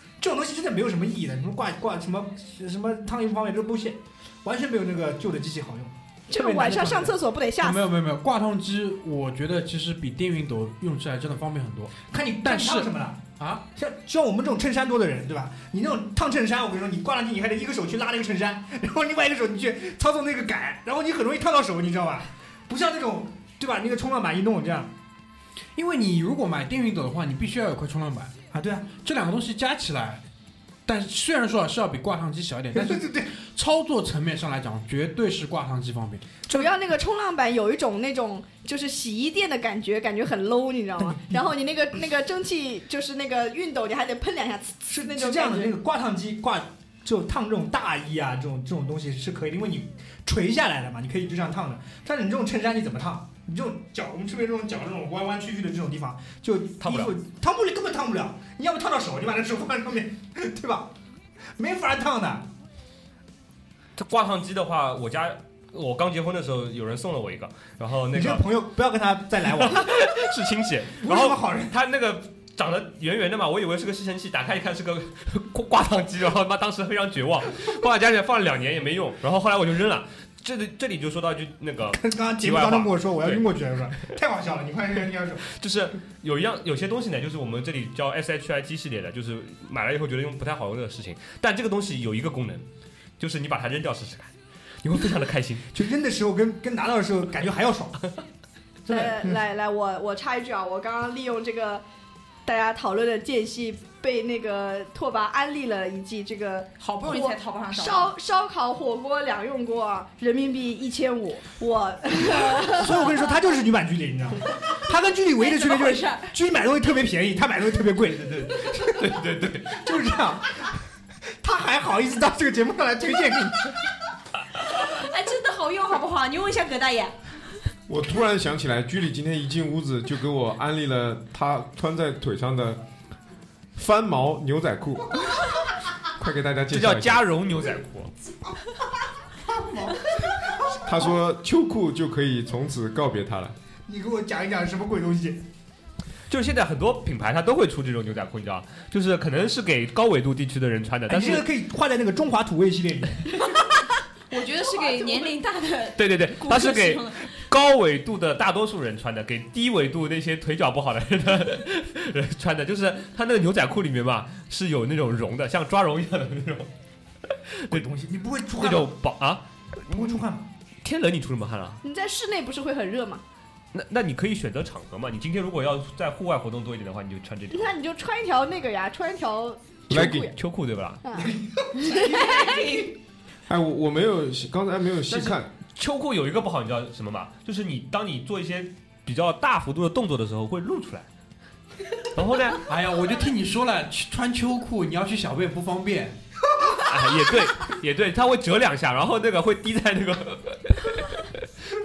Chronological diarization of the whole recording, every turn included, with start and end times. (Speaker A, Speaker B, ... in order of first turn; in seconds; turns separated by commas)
Speaker A: 0.2-7.2, Speaker B: 6.3-7.8, Speaker C: 7.6-13.6, Speaker A: 12.1-13.2, Speaker A: 13.7-24.9, Speaker C: 25.8-28.3, Speaker A: 28.5-28.9, Speaker C: 29.0-30.2, Speaker C: 30.9-36.2, Speaker A: 32.8-33.3, Speaker B: 36.5-45.7, Speaker A: 41.0-41.4, Speaker A: 44.9-60.9, Speaker D: 56.8-57.1, Speaker A: 61.6-62.5, Speaker D: 64.0-68.5, Speaker A: 68.1-70.1, Speaker D: 69.5-83.5, Speaker A: 71.0-71.7, Speaker A: 81.9-85.5, Speaker D: 85.5-92.7, Speaker D: 93.2-94.3, Speaker A: 94.8-98.1, Speaker D: 94.9-95.7, Speaker A: 98.9-99.4, Speaker B: 98.9-101.8, Speaker B: 102.5-112.9, Speaker E: 106.8-108.1, Speaker A: 112.3-120.8, Speaker E: 115.4-116.3, Speaker D: 119.0-119.9, Speaker A: 121.4-123.8, Speaker E: 124.7-127.2, Speaker F: 127.9-132.8, Speaker F: 133.8-135.4, Speaker F: 136.2-137.2, Speaker D: 136.7-138.1, Speaker A: 139.4-141.2, Speaker F: 140.8-143.6, Speaker A: 143.9-145.4, Speaker D: 146.3-151.5, Speaker A: 151.1-153.6, Speaker E: 154.3-157.3, Speaker D: 155.9-166.7, Speaker A: 167.7-168.9, Speaker D: 168.6-170.2, Speaker A: 169.9-170.5, Speaker D: 170.8-171.8, Speaker B: 171.8-173.2, Speaker D: 173.7-177.7, Speaker B: 177.5-180.3, Speaker F: 179.9-180.3, Speaker D: 179.9-181.0, Speaker A: 181.1-182.8, Speaker B: 181.9-182.4, Speaker E: 182.0-182.9, Speaker F: 183.5-185.5, Speaker D: 185.1-191.1, Speaker D: 192.1-192.6, Speaker C: 192.7-196.2, Speaker D: 196.8-201.3